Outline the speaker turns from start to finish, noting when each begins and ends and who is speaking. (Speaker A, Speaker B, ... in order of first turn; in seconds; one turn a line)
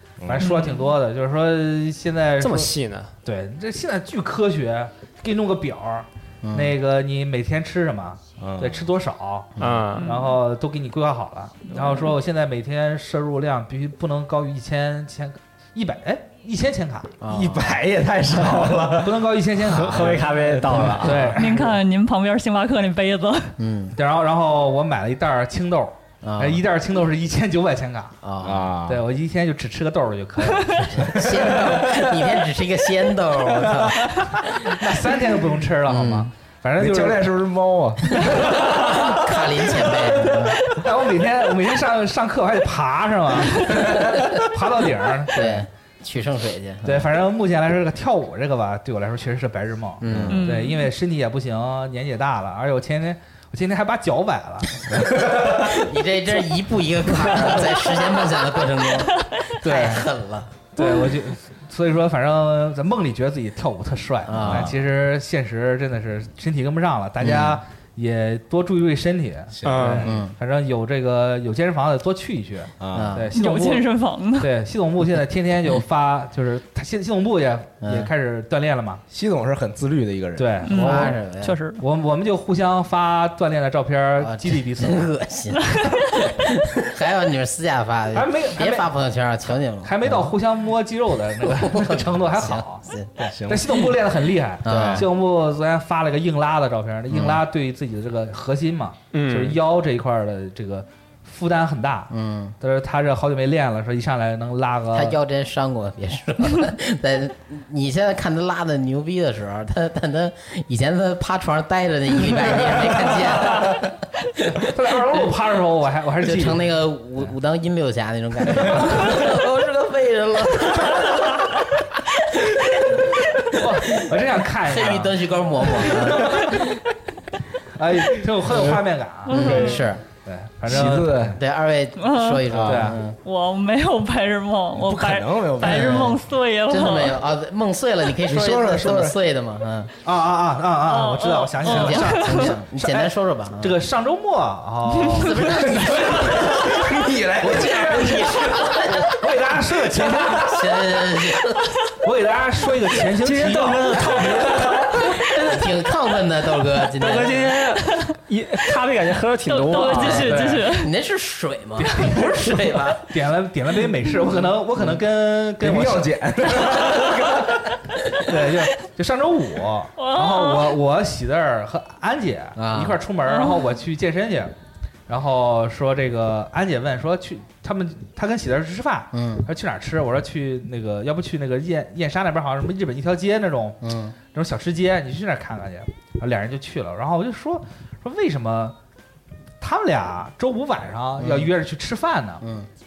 Speaker A: 0.2-0.5
Speaker B: 0.3-2.7
Speaker C: 0.4-0.9
Speaker D: 2.4-3.1
Speaker B: 3.2-17.2
Speaker E: 6.4-6.8
Speaker A: 8.4-8.9
Speaker D: 9.6-10.1
Speaker C: 10.0-10.4
Speaker C: 11.7-12.1
Speaker E: 17.2-17.8
Speaker A: 17.3-19.3
Speaker B: 18.9-21.7
Speaker D: 19.7-21.3
Speaker A: 19.9-21.0
Speaker C: 21.4-23.6
Speaker E: 23.6-24.0
Speaker B: 24.0-28.2
Speaker E: 26.2-26.6
Speaker E: 28.2-28.7
Speaker A: 28.4-29.0
Speaker B: 28.9-31.1
Speaker C: 30.5-30.9
Speaker E: 30.9-35.1
Speaker A: 31.2-32.0
Speaker B: 34.8-37.2
Speaker E: 35.9-36.3
Speaker A: 36.8-38.6
Speaker E: 38.3-40.7
Speaker B: 40.7-45.6
Speaker E: 45.3-47.1
Speaker B: 46.9-54.9
Speaker E: 50.0-50.5
Speaker A: 50.1-50.4
Speaker C: 50.3-50.9
Speaker E: 55.0-60.5
Speaker B: 59.6-60.1
Speaker B: 60.8-73.9
Speaker C: 60.8-61.2
Speaker E: 64.3-64.7
Speaker A: 64.4-64.7
Speaker E: 67.2-67.6
Speaker A: 69.5-70.2
Speaker D: 69.7-70.0
Speaker E: 70.0-70.3
Speaker A: 72.8-73.2
Speaker E: 72.9-73.3
Speaker C: 73.3-74.5
Speaker B: 74.4-79.0
Speaker E: 77.8-78.1
Speaker A: 79.1-80.6
Speaker B: 80.4-81.1
Speaker C: 80.7-81.8
Speaker E: 80.7-81.6
Speaker B: 81.8-85.1
Speaker E: 84.2-90.3
Speaker B: 88.1-88.9
Speaker B: 89.8-105.2
Speaker E: 91.4-93.1
Speaker A: 93.3-93.8
Speaker E: 94.7-95.1
Speaker A: 94.7-95.0
Speaker E: 97.1-97.4
Speaker D: 99.1-99.6
Speaker E: 102.1-102.6
Speaker E: 104.9-115.3
Speaker B: 114.7-116.7
Speaker E: 116.2-126.8
Speaker B: 118.7-119.2
Speaker B: 123.5-125.2
Speaker B: 125.9-126.6
Speaker B: 127.8-129.7
Speaker A: 128.5-128.8
Speaker C: 129.3-129.9
Speaker E: 129.3-130.0
Speaker B: 130.2-131.4
Speaker A: 130.7-131.4
Speaker E: 131.4-133.2
Speaker C: 132.0-132.5
Speaker A: 132.5-133.0
Speaker B: 132.7-133.0
Speaker C: 133.2-137.2
Speaker A: 134.8-136.2
Speaker E: 135.6-136.2
Speaker E: 136.7-139.9
Speaker A: 138.3-139.2
Speaker B: 140.1-146.4
Speaker C: 140.9-142.6
Speaker E: 141.6-143.8
Speaker C: 145.0-145.4
Speaker E: 145.2-149.2
Speaker A: 145.7-148.8
Speaker B: 147.4-148.3
Speaker B: 149.0-150.7
Speaker E: 150.0-151.7
Speaker B: 152.0-154.2
Speaker D: 153.2-155.0
Speaker E: 155.0-157.6
Speaker D: 157.0-160.5
Speaker C: 159.5-160.9
Speaker E: 159.9-163.1
Speaker B: 160.2-160.7
Speaker B: 161.8-166.1
Speaker A: 165.6-167.7
Speaker B: 168.2-174.5
Speaker C: 170.0-170.8
Speaker E: 172.6-173.0
Speaker C: 173.3-173.7
Speaker B: 175.1-188.8
Speaker E: 179.1-179.5
Speaker E: 183.8-184.2
Speaker B: 189.6-192.4
Speaker E: 191.2-191.5
Speaker E: 192.4-192.7